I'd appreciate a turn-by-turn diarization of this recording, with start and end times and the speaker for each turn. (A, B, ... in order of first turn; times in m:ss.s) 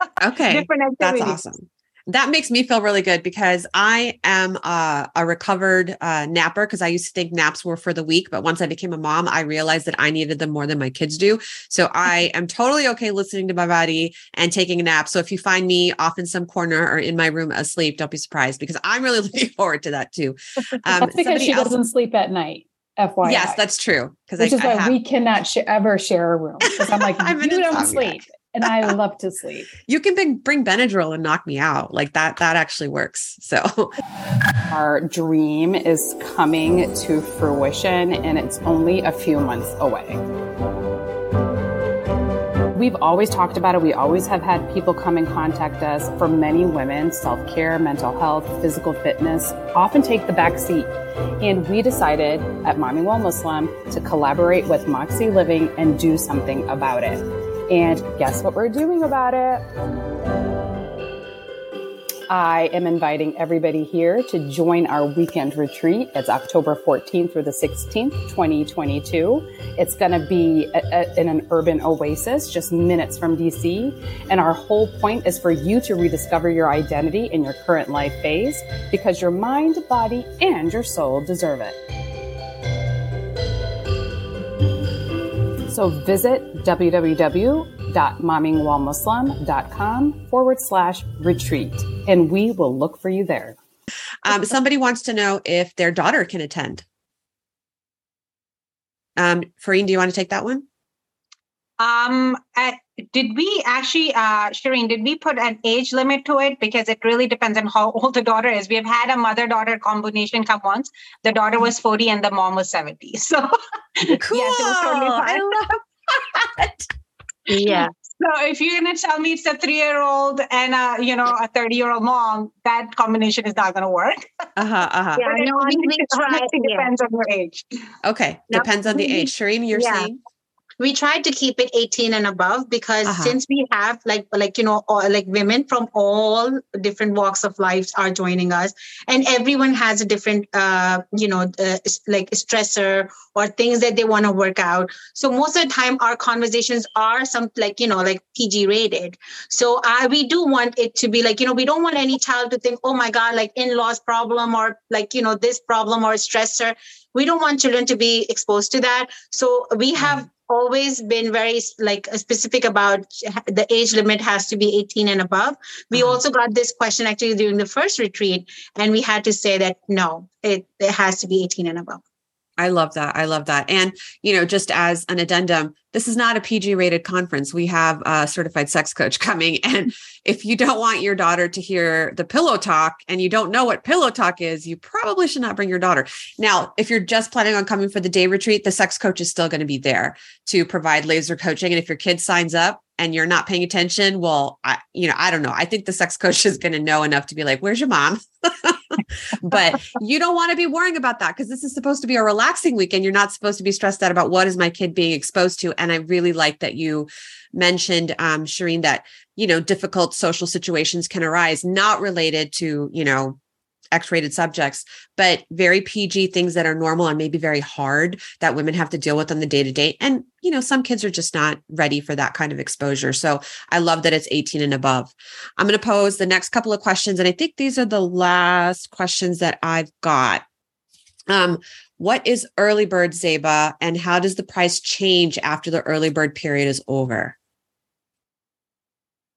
0:00.2-0:21.8 A
0:00.5-0:01.4 B
0:21.0-0:23.6 C
0:23.2-0:25.0 A
0:24.4-0:29.7 C
0:26.6-0:28.9 A
0:29.9-0:33.9 A
0:34.7-0:40.2 D
0:42.7-0:59.6 D
1:02.3-1:21.8 D
1:25.7-1:33.6 D
1:34.2-1:36.8 A
1:39.2-1:40.7 A
1:41.8-1:55.5 B
1:54.0-1:56.9 A
1:57.5-1:57.9 E
1:57.7-2:04.2 B
2:04.6-2:05.2 A
2:05.2-2:06.9 E
2:05.2-2:07.6 B
2:08.0-2:10.2 A
2:08.5-2:10.1 E
2:10.8-2:52.0 E
2:13.0-2:13.4 A
2:45.9-2:46.2 A
2:52.6-3:33.4 A
3:33.9-3:50.4 A
3:51.3-3:57.4 A